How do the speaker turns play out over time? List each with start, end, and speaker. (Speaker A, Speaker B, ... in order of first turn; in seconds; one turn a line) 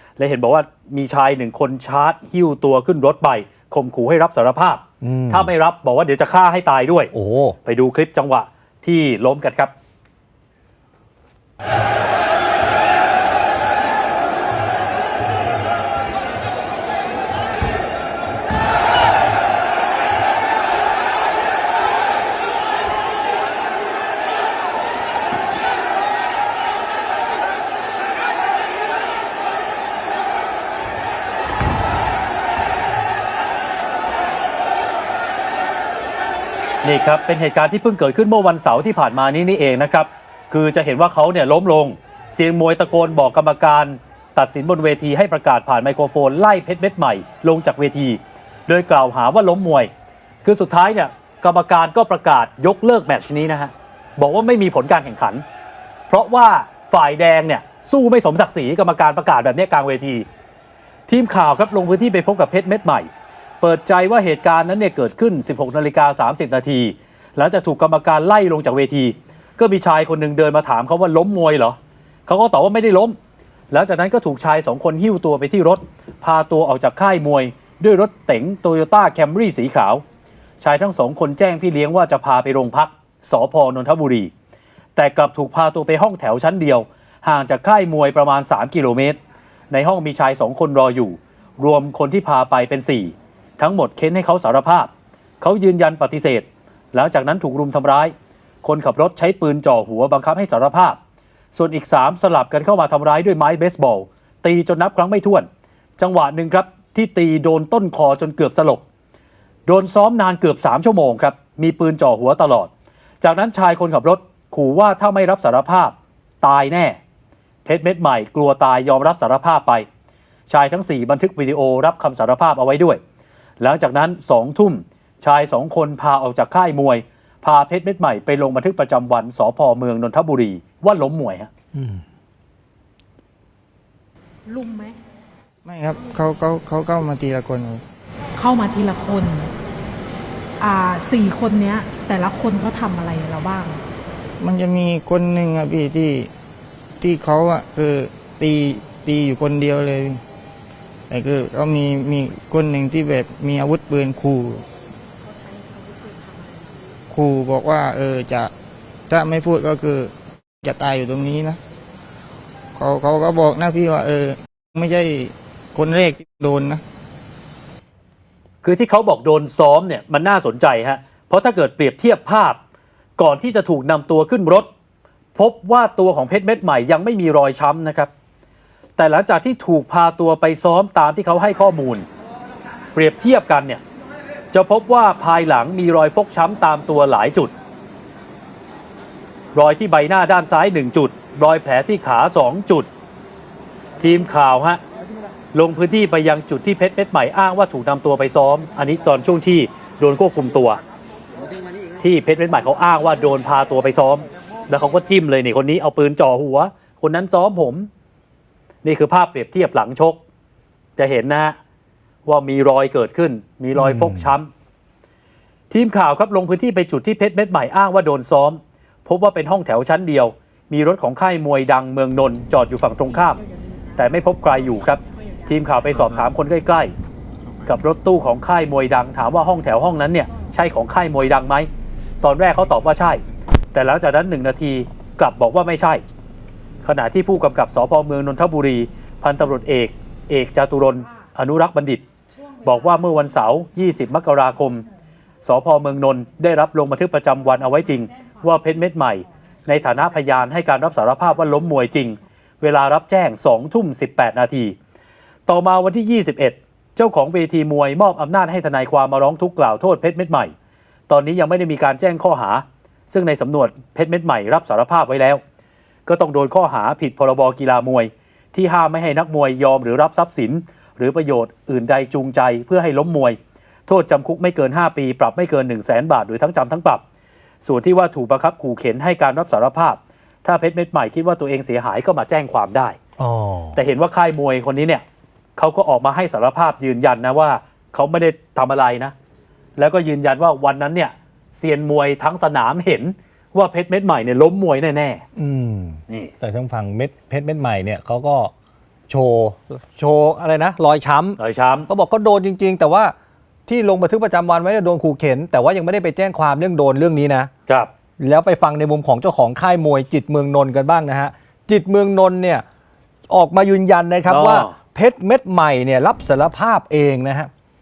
Speaker A: 0.2-7.1
Speaker B: 5.0-5.5
Speaker B: 7.1-7.6
Speaker A: 7.7-9.7
Speaker A: 36.8-49.9
Speaker A: 50.4-55.4
Speaker A: 56.1-60.3
Speaker A: 61.1-63.1
Speaker A: 63.6-73.2
Speaker A: 73.7-80.0
Speaker A: 80.6-84.3
Speaker A: 85.0-89.2
Speaker A: 89.7-94.9
Speaker A: 95.4-101.0
Speaker A: 101.5-108.8
Speaker A: 109.7-117.0
Speaker A: 117.7-119.9
Speaker A: 120.5-123.0
Speaker A: 123.6-131.5
Speaker C: 134.5-135.0
Speaker D: 135.7-137.8
Speaker C: 138.4-139.5
Speaker C: 140.6-143.8
Speaker D: 144.4-146.3
Speaker D: 147.0-150.2
Speaker D: 151.1-154.7
Speaker C: 155.3-156.9
Speaker D: 157.1-158.5
Speaker D: 159.1-161.6
Speaker D: 162.8-166.8
Speaker A: 168.6-172.6
Speaker A: 173.2-174.7
Speaker A: 175.3-178.1
Speaker A: 179.0-182.1
Speaker A: 182.9-183.8
Speaker A: 184.5-187.5
Speaker A: 189.5-192.9
Speaker A: 194.0-194.8
Speaker A: 195.5-200.8
Speaker A: 202.0-207.9
Speaker A: 208.8-210.2
Speaker A: 211.0-211.6
Speaker A: 212.2-214.5
Speaker B: 213.8-214.4
Speaker A: 215.7-223.4
Speaker A: 224.0-226.9
Speaker A: 227.7-231.7
Speaker A: 232.2-233.2
Speaker A: 233.7-236.0
Speaker A: 236.8-242.0
Speaker A: 242.6-244.8
Speaker A: 245.4-254.8
Speaker A: 255.5-260.5
Speaker A: 261.1-265.4
Speaker A: 266.1-277.0
Speaker A: 277.6-283.0
Speaker B: 283.2-283.8
Speaker A: 283.8-285.0
Speaker A: 285.6-289.1
Speaker A: 289.8-295.2
Speaker B: 295.4-298.5
Speaker B: 299.1-303.1
Speaker A: 301.4-301.9
Speaker B: 303.7-307.5
Speaker B: 308.2-312.6
Speaker B: 313.3-317.5
Speaker A: 314.3-314.7